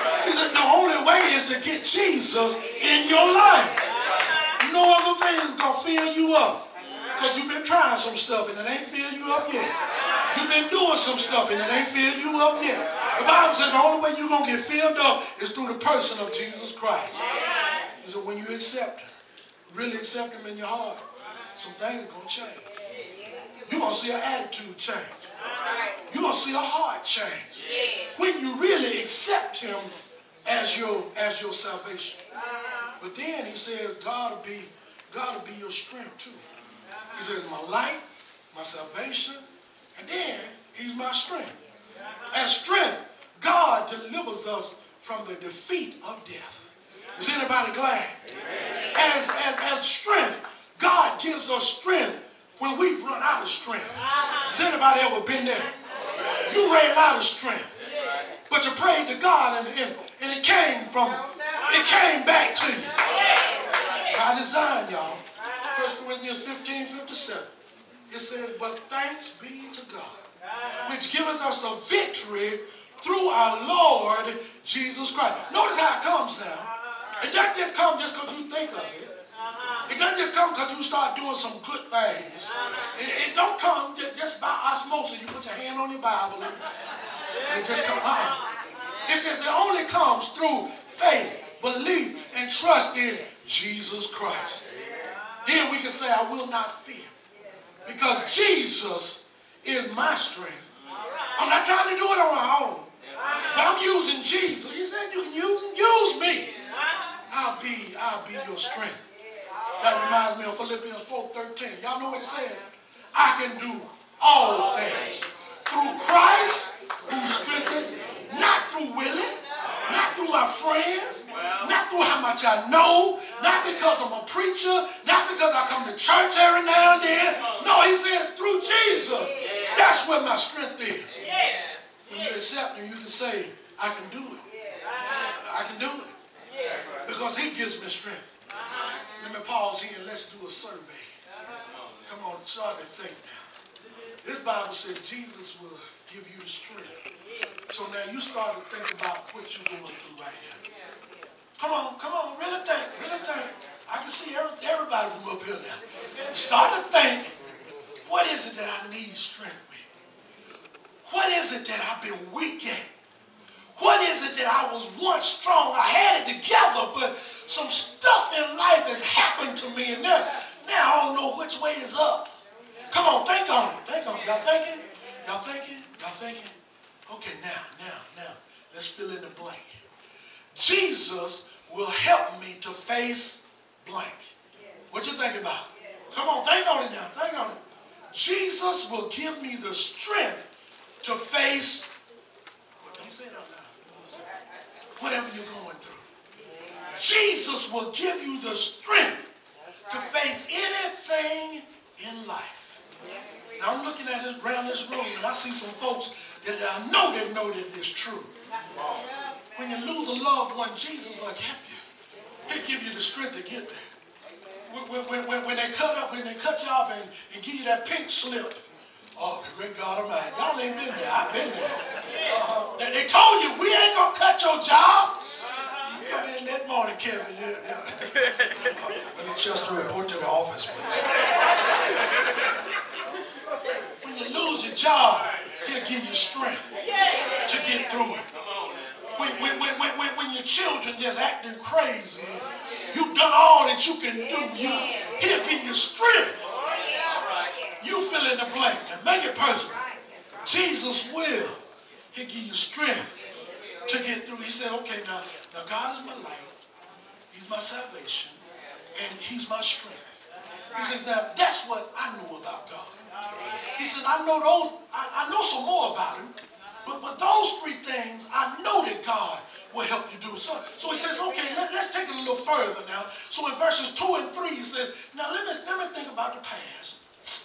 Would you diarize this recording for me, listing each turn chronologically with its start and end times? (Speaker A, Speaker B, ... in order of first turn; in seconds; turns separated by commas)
Speaker A: 0.2-3.8, Speaker A: 4.6-6.6, Speaker A: 7.2-9.7, Speaker A: 10.3-17.2, Speaker A: 18.0-19.1, Speaker A: 19.7-21.0, Speaker A: 21.6-22.6, Speaker A: 23.7-25.2, Speaker A: 26.1-32.2, Speaker A: 33.0-36.4, Speaker A: 37.1-41.6, Speaker A: 42.3-48.1, Speaker A: 48.9-55.7, Speaker A: 56.4-57.7, Speaker A: 58.5-63.0, Speaker A: 64.1-67.5, Speaker A: 68.1-70.2, Speaker A: 70.8-79.1, Speaker A: 79.9-86.6, Speaker A: 87.4-88.4, Speaker A: 89.0-94.6, Speaker A: 95.4-97.1, Speaker A: 97.8-100.7, Speaker A: 101.3-102.9, Speaker A: 103.5-106.5, Speaker A: 107.3-109.0, Speaker A: 109.8-131.2, Speaker A: 132.1-134.4, Speaker A: 135.1-136.1, Speaker A: 137.0-138.3, Speaker A: 139.2-141.1, Speaker A: 142.1-143.4, Speaker A: 144.2-147.0, Speaker A: 147.7-150.6, Speaker A: 151.6-157.3, Speaker A: 158.1-159.9, Speaker A: 161.0-162.9, Speaker A: 163.8-172.3, Speaker A: 172.9-176.5, Speaker A: 177.1-179.8, Speaker A: 180.5-184.3, Speaker A: 184.9-187.6, Speaker A: 188.1-190.5, Speaker A: 191.0-191.9, Speaker A: 192.8-194.2, Speaker A: 195.0-196.0, Speaker A: 196.9-199.2, Speaker A: 199.9-202.8, Speaker A: 203.6-208.3, Speaker A: 209.6-211.8, Speaker A: 212.5-213.9, Speaker A: 214.7-218.6, Speaker A: 219.2-221.8, Speaker A: 222.3-225.1, Speaker A: 225.8-231.1, Speaker A: 234.0-236.7, Speaker A: 237.4-238.3, Speaker A: 239.2-246.4, Speaker A: 247.8-249.8, Speaker A: 250.4-251.6, Speaker A: 252.1-253.1, Speaker A: 253.9-256.5, Speaker A: 257.3-258.4, Speaker A: 258.9-260.1, Speaker A: 260.7-262.9, Speaker A: 263.8-266.3, Speaker A: 266.8-277.0